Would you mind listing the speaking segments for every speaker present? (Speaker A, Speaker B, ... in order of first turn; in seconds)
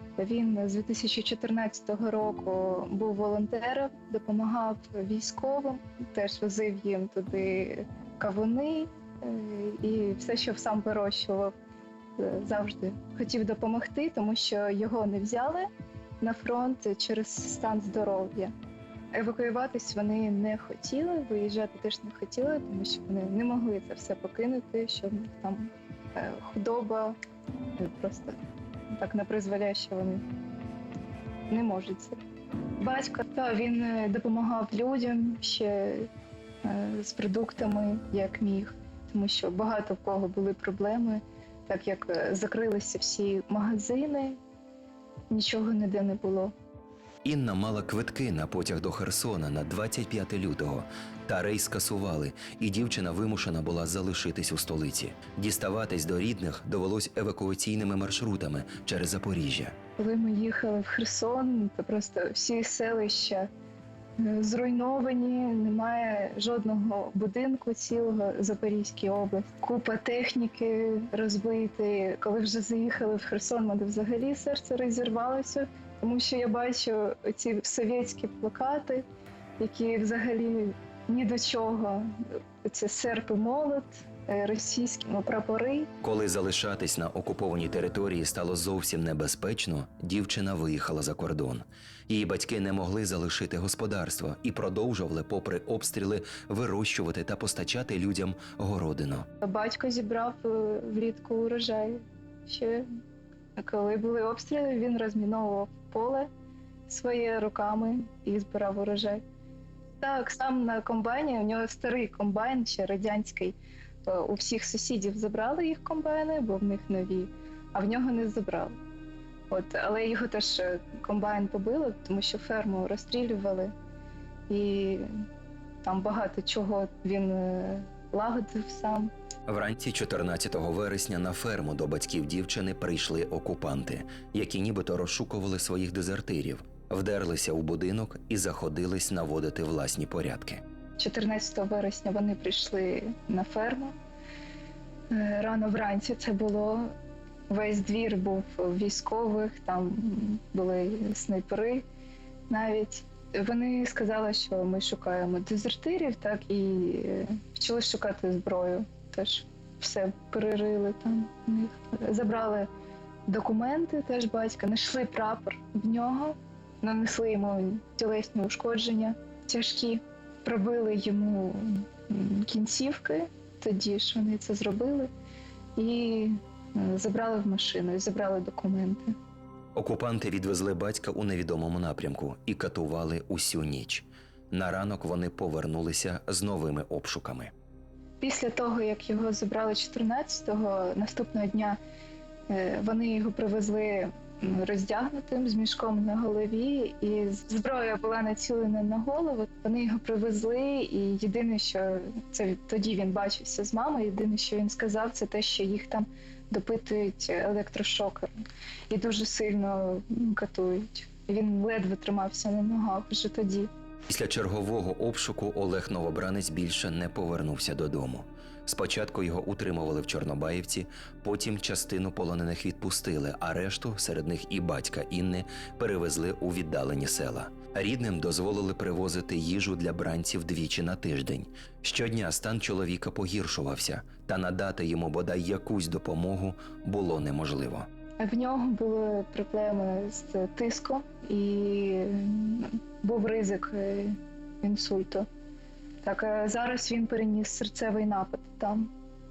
Speaker A: 0.2-11.5, 12.2-15.7, 16.2-18.5, 19.1-27.1, 27.8-28.4, 28.9-30.2, 31.5-32.2, 32.8-36.1, 36.6-44.4, 45.3-46.5, 60.0-63.5, 64.2-79.0, 79.6-85.9, 99.4-102.9, 103.6-106.3, 106.9-109.2, 110.0-118.7, 119.5-123.7, 124.5-125.1, 125.8-129.1, 141.0-143.9, 145.1-146.9, 147.5-151.8, 152.5-162.7, 163.3-175.1, 175.8-179.1, 188.2-191.8, 192.5-208.3, 208.9-213.7, 238.2-245.3, 246.0-248.9
Speaker B: 47.2-59.7, 86.0-99.3, 129.5-140.6, 179.7-187.5, 214.1-237.9